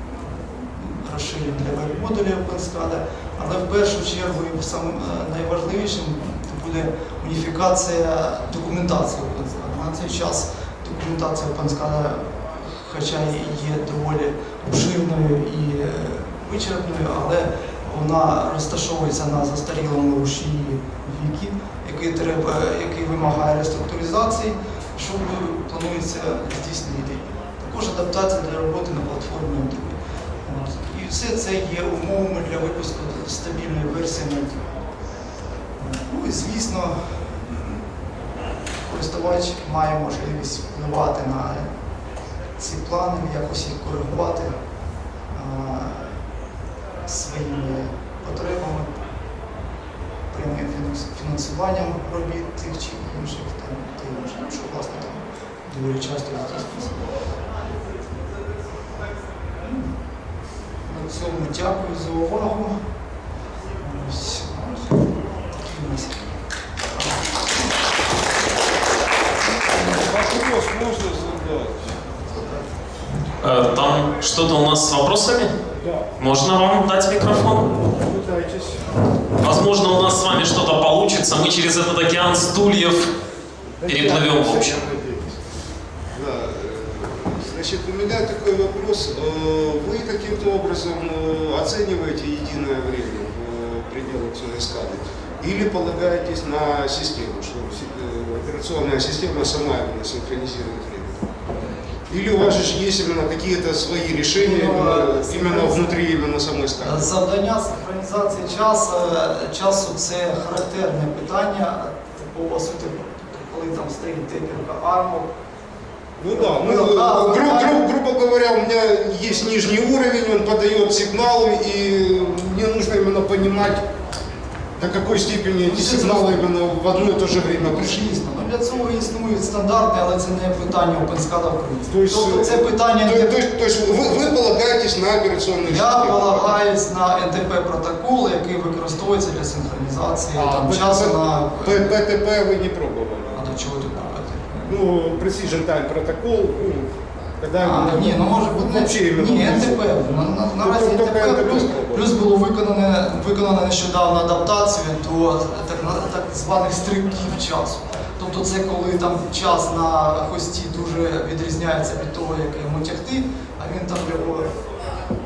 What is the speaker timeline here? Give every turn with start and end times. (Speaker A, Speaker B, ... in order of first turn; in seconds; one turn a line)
Speaker A: 0.8-34.7
Speaker A: 35.8-37.8
Speaker A: 38.8-41.7
Speaker A: 42.6-44.5
Speaker A: 45.3-46.1
Speaker A: 47.1-48.9
Speaker A: 50.3-57.0
Speaker A: 60.9-62.7
Speaker A: 63.8-65.1
Speaker A: 65.6-66.3
Speaker A: 67.0-67.3
Speaker B: 69.7-72.0
Speaker A: 72.3-72.6
Speaker C: 73.4-75.5
Speaker B: 75.8-76.1
Speaker C: 76.2-77.7
Speaker B: 77.8-78.8
Speaker C: 79.4-83.1
Speaker B: 83.8-85.4
Speaker C: 83.9-84.8
Speaker B: 86.1-101.2
Speaker B: 102.1-107.1
Speaker A: 104.4-105.9
Speaker A: 106.8-115.3
Speaker B: 116.2-123.9
Speaker A: 116.3-117.8
Speaker B: 124.8-128.0
Speaker A: 125.7-126.5
Speaker A: 127.5-133.4
Speaker B: 131.9-136.6
Speaker A: 135.6-141.9
Speaker B: 140.3-143.4
Speaker A: 143.3-144.7
Speaker B: 144.7-150.0
Speaker A: 147.6-164.5
Speaker B: 150.6-152.1